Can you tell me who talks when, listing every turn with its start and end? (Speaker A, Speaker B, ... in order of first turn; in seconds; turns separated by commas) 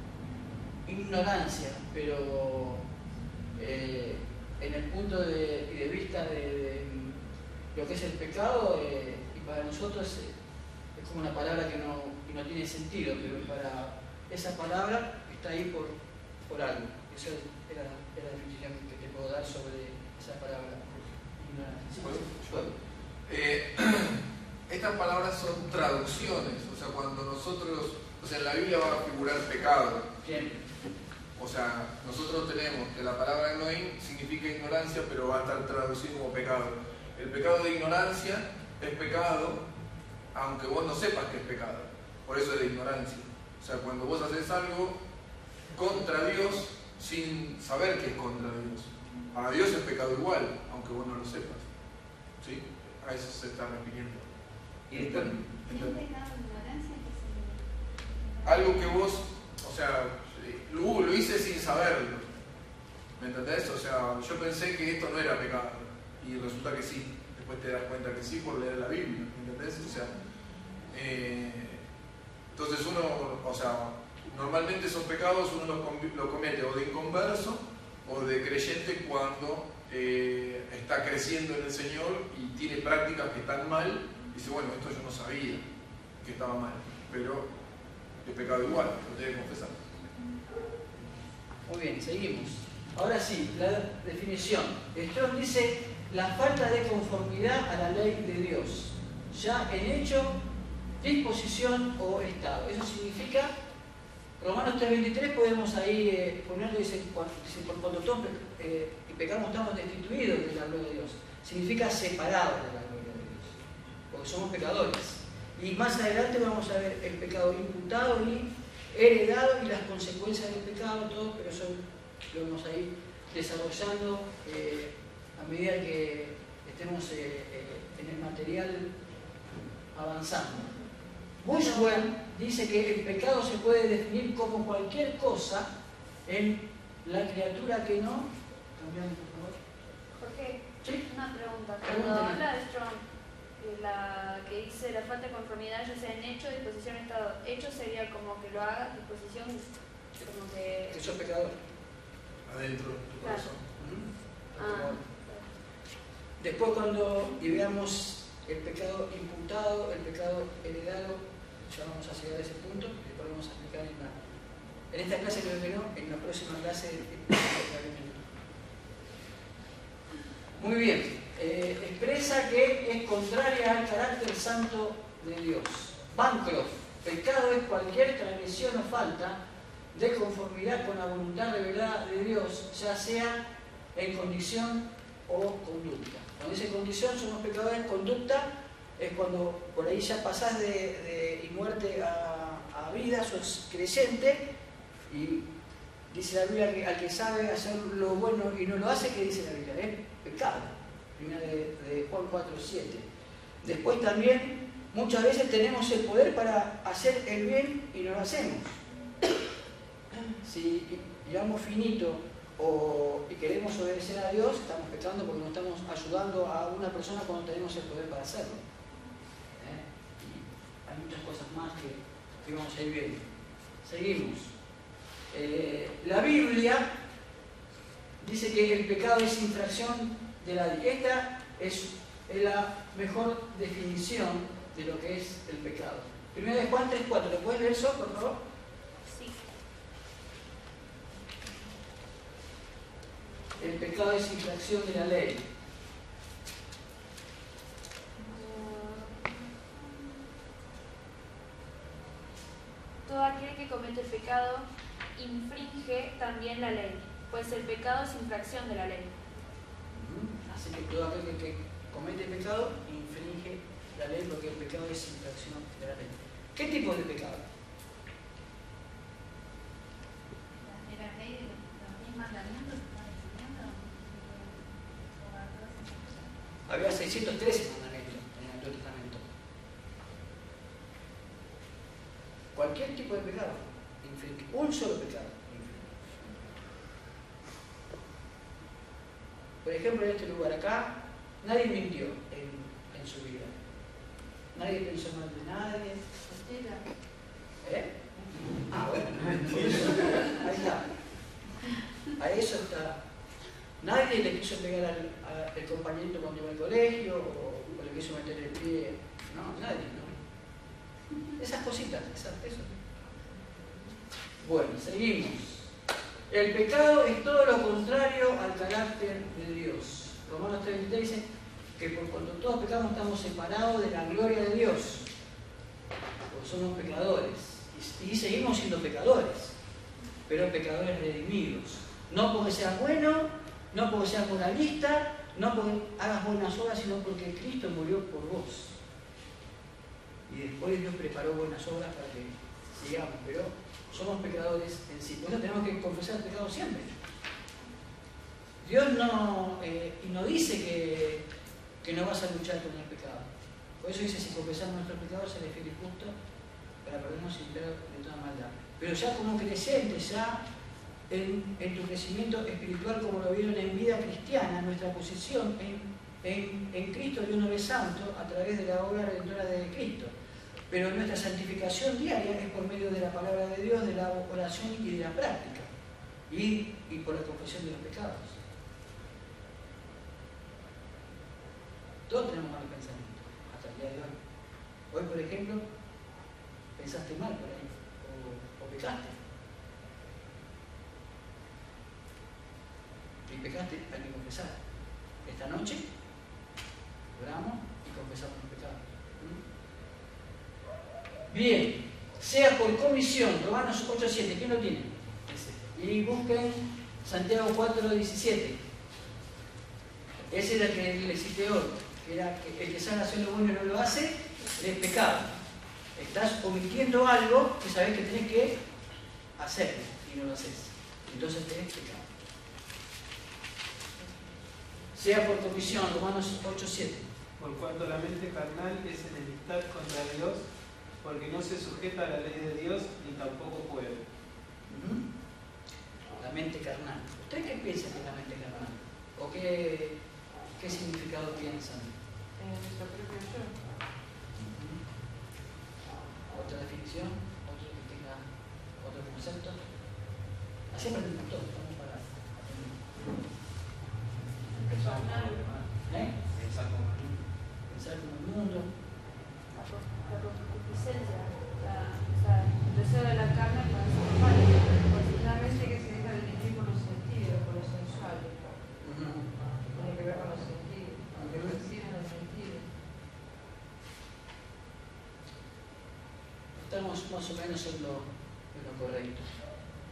Speaker A: 0.9-2.8, Speaker A: 3.5-7.2, Speaker A: 7.7-10.3, Speaker A: 10.9-15.9, Speaker A: 16.5-22.7, Speaker B: 22.0-22.7, Speaker B: 23.3-30.1, Speaker A: 30.2-30.6, Speaker B: 31.4-39.6, Speaker B: 40.3-45.0, Speaker B: 45.7-51.6, Speaker B: 52.4-54.3, Speaker A: 54.9-55.4, Speaker B: 54.9-56.0, Speaker C: 55.6-58.7, Speaker B: 58.4-62.3, Speaker B: 63.2-70.2, Speaker B: 70.9-71.8, Speaker B: 72.5-85.6, Speaker B: 86.2-87.5, Speaker B: 88.2-89.9, Speaker A: 91.7-100.4, Speaker A: 101.0-103.5, Speaker A: 104.4-128.9, Speaker A: 129.9-130.7, Speaker A: 131.4-135.7, Speaker D: 131.5-132.0, Speaker A: 136.2-139.6, Speaker D: 140.2-143.0, Speaker A: 141.8-142.4, Speaker D: 143.6-149.6, Speaker D: 150.2-151.1, Speaker A: 150.9-151.6, Speaker B: 152.4-153.6, Speaker A: 153.7-155.0, Speaker D: 154.6-155.5, Speaker A: 156.4-164.1, Speaker A: 164.9-168.2, Speaker A: 170.6-179.4, Speaker A: 179.9-183.4, Speaker A: 183.9-194.4, Speaker A: 195.1-195.5, Speaker A: 196.1-203.0, Speaker A: 203.6-208.8, Speaker A: 210.1-218.6, Speaker A: 219.6-223.3, Speaker A: 223.8-224.5, Speaker A: 225.3-226.9, Speaker A: 228.2-238.4, Speaker D: 239.1-239.4, Speaker A: 243.6-245.4, Speaker D: 248.2-250.1, Speaker D: 253.1-259.1, Speaker A: 259.9-267.4, Speaker C: 270.6-276.3, Speaker A: 276.7-279.3, Speaker A: 282.5-286.3, Speaker A: 289.6-293.6, Speaker A: 294.5-296.0, Speaker E: 296.2-296.8, Speaker A: 297.6-297.9, Speaker A: 298.7-300.9, Speaker A: 302.2-303.0, Speaker A: 303.8-310.1, Speaker A: 311.4-312.8, Speaker A: 314.4-315.7, Speaker A: 316.3-321.2, Speaker A: 321.8-325.1, Speaker A: 326.3-329.5, Speaker A: 330.3-338.7, Speaker A: 340.3-346.9, Speaker A: 348.6-351.2, Speaker A: 351.8-353.3, Speaker A: 353.8-356.1, Speaker A: 356.8-360.4, Speaker A: 361.1-370.1, Speaker A: 370.7-375.7, Speaker A: 376.3-378.4, Speaker A: 382.1-384.2, Speaker A: 384.9-385.6, Speaker A: 386.8-389.2, Speaker A: 393.2-394.6, Speaker A: 395.2-395.8, Speaker A: 397.1-399.4, Speaker A: 401.3-408.6, Speaker A: 410.3-415.3, Speaker A: 415.9-418.6, Speaker A: 419.4-422.1, Speaker A: 424.9-427.1, Speaker F: 427.4-430.4, Speaker F: 431.0-434.0, Speaker A: 434.7-435.0, Speaker A: 436.2-439.9, Speaker A: 440.6-441.9, Speaker E: 442.4-443.6, Speaker A: 444.4-444.8, Speaker A: 446.3-448.2, Speaker A: 448.8-449.6, Speaker A: 450.7-452.8, Speaker D: 454.5-455.5, Speaker F: 454.7-455.6, Speaker A: 455.9-456.1, Speaker F: 456.2-457.1, Speaker A: 457.7-458.7, Speaker D: 459.5-465.7, Speaker E: 465.2-468.5, Speaker A: 468.8-469.2, Speaker E: 469.7-472.7, Speaker A: 471.1-471.5, Speaker A: 476.6-479.3